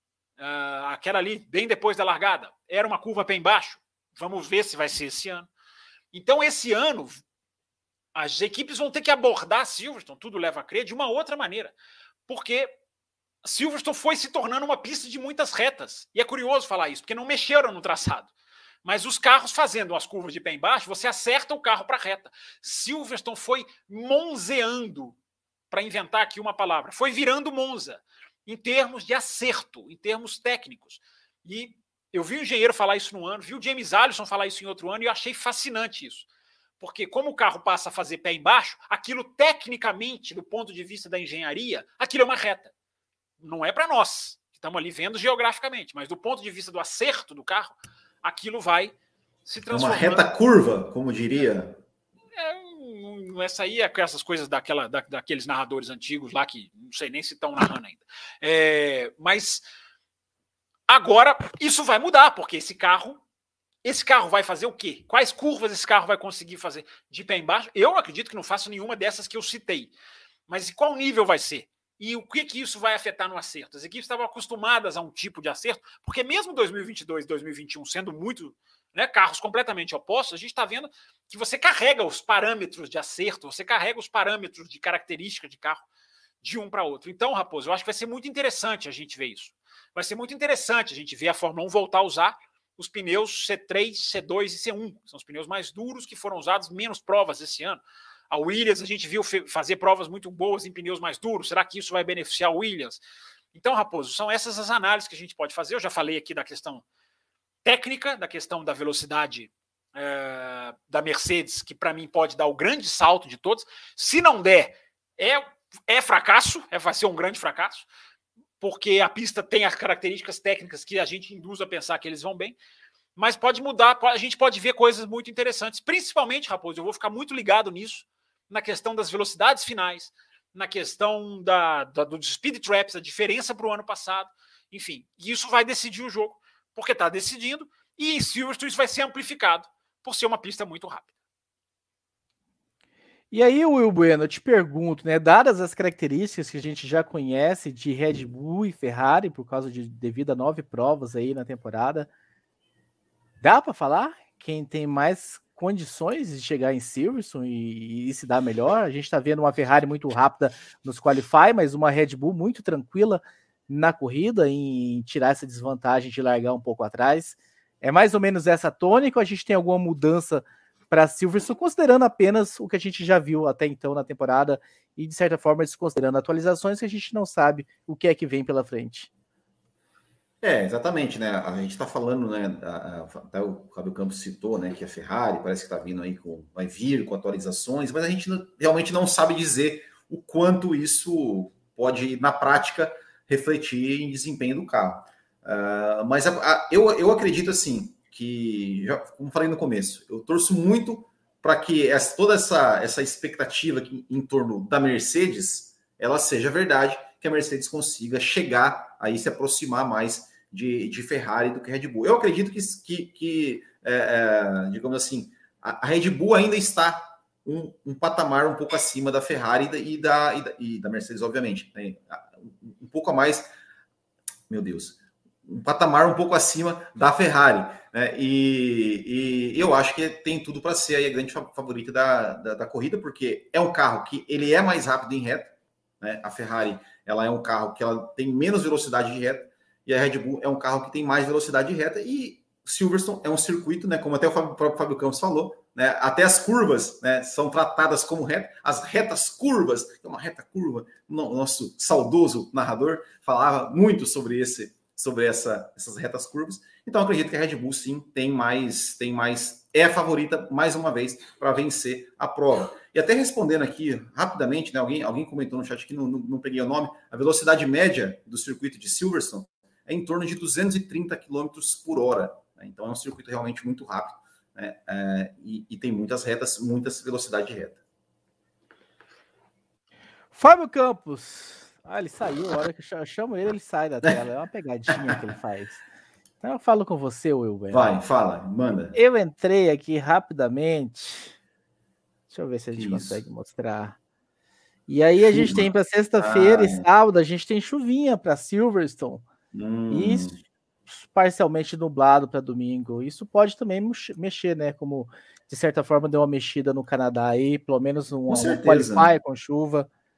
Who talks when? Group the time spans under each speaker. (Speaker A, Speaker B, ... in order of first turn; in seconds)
Speaker A: 0.4-5.5, 6.1-7.2, 8.2-11.7, 12.3-12.7, 13.4-18.3, 18.8-25.2, 25.7-36.3, 36.8-42.7, 43.4-50.2, 52.4-59.6, 60.9-63.2, 63.8-69.9, 70.5-85.8, 86.4-103.0, 103.5-106.8, 107.6-117.9, 118.6-122.6, 123.2-141.1
Speaker B: 49.7-51.8, 180.4-223.5, 224.5-277.8, 284.9-285.2, 287.7-288.9, 292.8-293.2, 295.2-296.9, 299.5-300.4, 308.3-309.1
Speaker C: 143.3-152.1, 153.4-179.1, 280.3-285.8, 286.4-288.0, 288.9-291.4, 292.3-294.0, 294.9-299.2, 299.9-300.3, 300.9-309.9